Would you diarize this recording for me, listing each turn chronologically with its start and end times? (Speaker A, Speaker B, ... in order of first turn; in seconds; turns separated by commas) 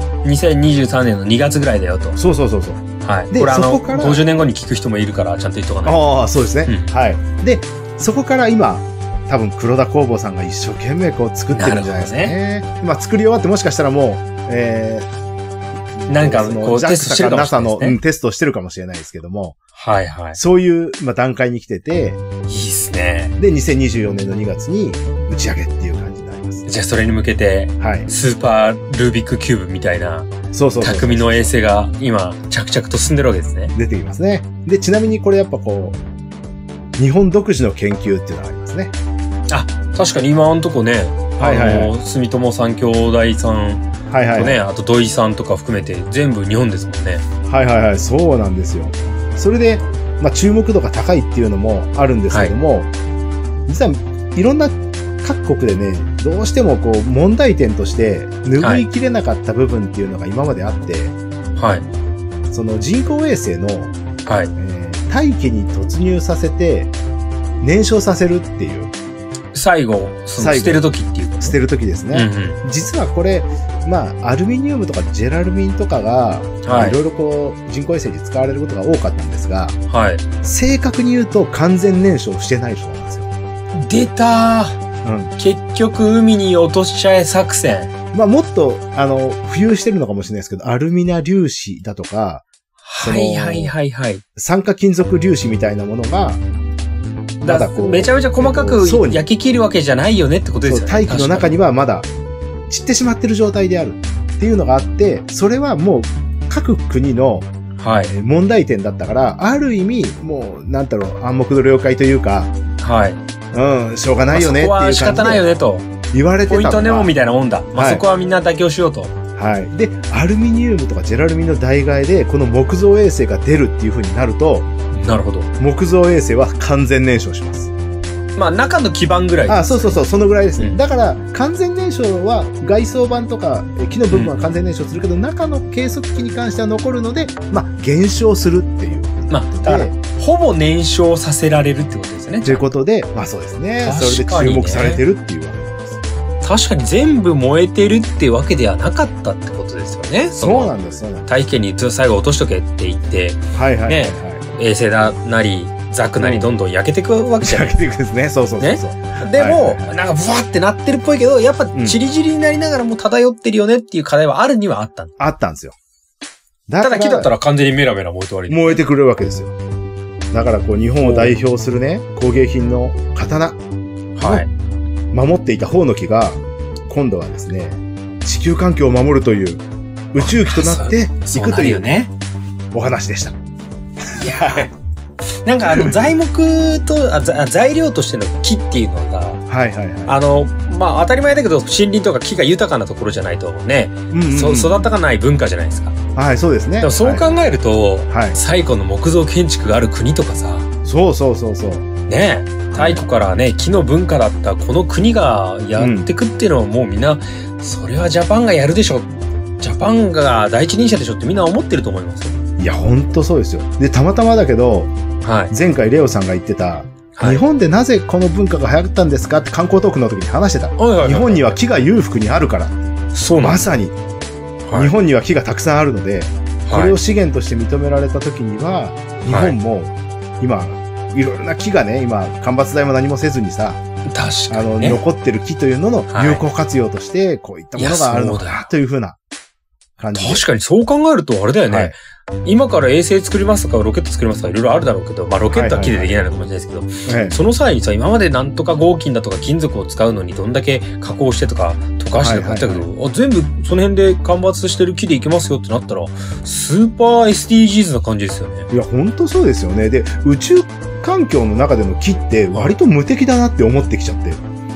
Speaker A: 0.2-2.2, Speaker B: 2.2-4.2, Speaker A: 3.0-6.0, Speaker B: 5.8-15.1, Speaker A: 6.7-6.9, Speaker A: 11.5-12.3, Speaker B: 15.9-19.6, Speaker A: 16.1-18.0, Speaker A: 19.8-20.4, Speaker B: 20.4-22.2, Speaker A: 22.5-23.4, Speaker B: 23.4-26.6, Speaker A: 26.6-30.3, Speaker B: 27.8-28.1, Speaker B: 30.5-31.5, Speaker A: 30.8-33.7, Speaker B: 33.7-36.0, Speaker B: 37.0-38.9, Speaker A: 39.5-47.2, Speaker B: 41.4-41.9, Speaker B: 44.1-44.6, Speaker B: 47.5-52.9, Speaker B: 53.7-61.1, Speaker A: 58.6-58.9, Speaker A: 61.5-61.9, Speaker B: 62.5-63.9, Speaker A: 64.2-64.5, Speaker B: 64.6-66.9, Speaker B: 67.6-68.9, Speaker A: 69.5-71.6, Speaker B: 70.4-70.8, Speaker B: 71.4-79.8, Speaker A: 72.1-72.6, Speaker A: 76.6-77.0, Speaker A: 79.9-80.2, Speaker B: 80.4-83.3, Speaker A: 83.7-84.8, Speaker B: 85.0-85.3, Speaker A: 85.4-87.9, Speaker B: 88.1-92.4, Speaker A: 92.8-94.2, Speaker B: 93.0-93.7, Speaker B: 94.3-96.4, Speaker B: 97.4-99.2, Speaker A: 97.4-101.5, Speaker B: 100.6-102.1, Speaker B: 102.7-107.5, Speaker A: 107.8-108.1, Speaker B: 108.1-112.5, Speaker A: 112.8-113.2, Speaker B: 113.5-115.4, Speaker A: 114.3-115.9, Speaker B: 116.1-117.1, Speaker A: 116.5-119.1, Speaker B: 117.7-118.0, Speaker B: 119.3-124.7, Speaker A: 124.9-125.5, Speaker B: 125.6-127.7, Speaker A: 128.4-130.0, Speaker B: 129.5-139.9, Speaker A: 134.1-134.5, Speaker A: 139.3-142.7, Speaker B: 142.4-146.0, Speaker A: 143.8-145.0, Speaker A: 146.4-150.7, Speaker B: 150.4-151.3, Speaker A: 151.2-157.7, Speaker B: 153.5-154.4, Speaker B: 156.2-156.5, Speaker B: 157.4-159.9, Speaker A: 158.6-165.1, Speaker B: 165.2-165.8, Speaker B: 166.7-167.3, Speaker A: 166.8-168.8, Speaker B: 168.5-169.6, Speaker B: 170.3-173.6, Speaker A: 171.0-171.3, Speaker A: 174.2-174.5, Speaker B: 174.2-174.4, Speaker B: 175.1-181.9, Speaker A: 180.2-182.1, Speaker B: 182.7-183.3, Speaker B: 184.1-184.7, Speaker A: 184.1-184.7, Speaker A: 185.4-189.4, Speaker B: 185.7-186.1, Speaker B: 189.5-190.2, Speaker A: 190.1-195.9, Speaker B: 194.1-194.9, Speaker B: 196.1-197.5, Speaker A: 196.8-200.7, Speaker B: 198.1-198.4, Speaker B: 200.8-201.9, Speaker A: 202.1-209.1, Speaker B: 202.7-203.1, Speaker B: 205.8-206.1, Speaker A: 209.6-212.3, Speaker B: 212.6-214.9, Speaker A: 215.2-215.5, Speaker B: 215.5-222.8, Speaker A: 217.1-217.4, Speaker A: 220.8-221.4, Speaker A: 223.1-223.6, Speaker B: 223.4-223.9, Speaker A: 224.6-224.9, Speaker B: 224.7-233.8, Speaker A: 226.7-227.0, Speaker A: 229.3-229.6, Speaker A: 234.1-235.0, Speaker B: 234.5-239.2, Speaker A: 236.1-236.4, Speaker A: 237.8-238.7, Speaker B: 240.0-240.4, Speaker A: 240.1-258.7, Speaker B: 241.7-241.9, Speaker B: 245.5-246.2, Speaker B: 247.1-247.4, Speaker B: 252.2-252.8, Speaker B: 258.7-264.4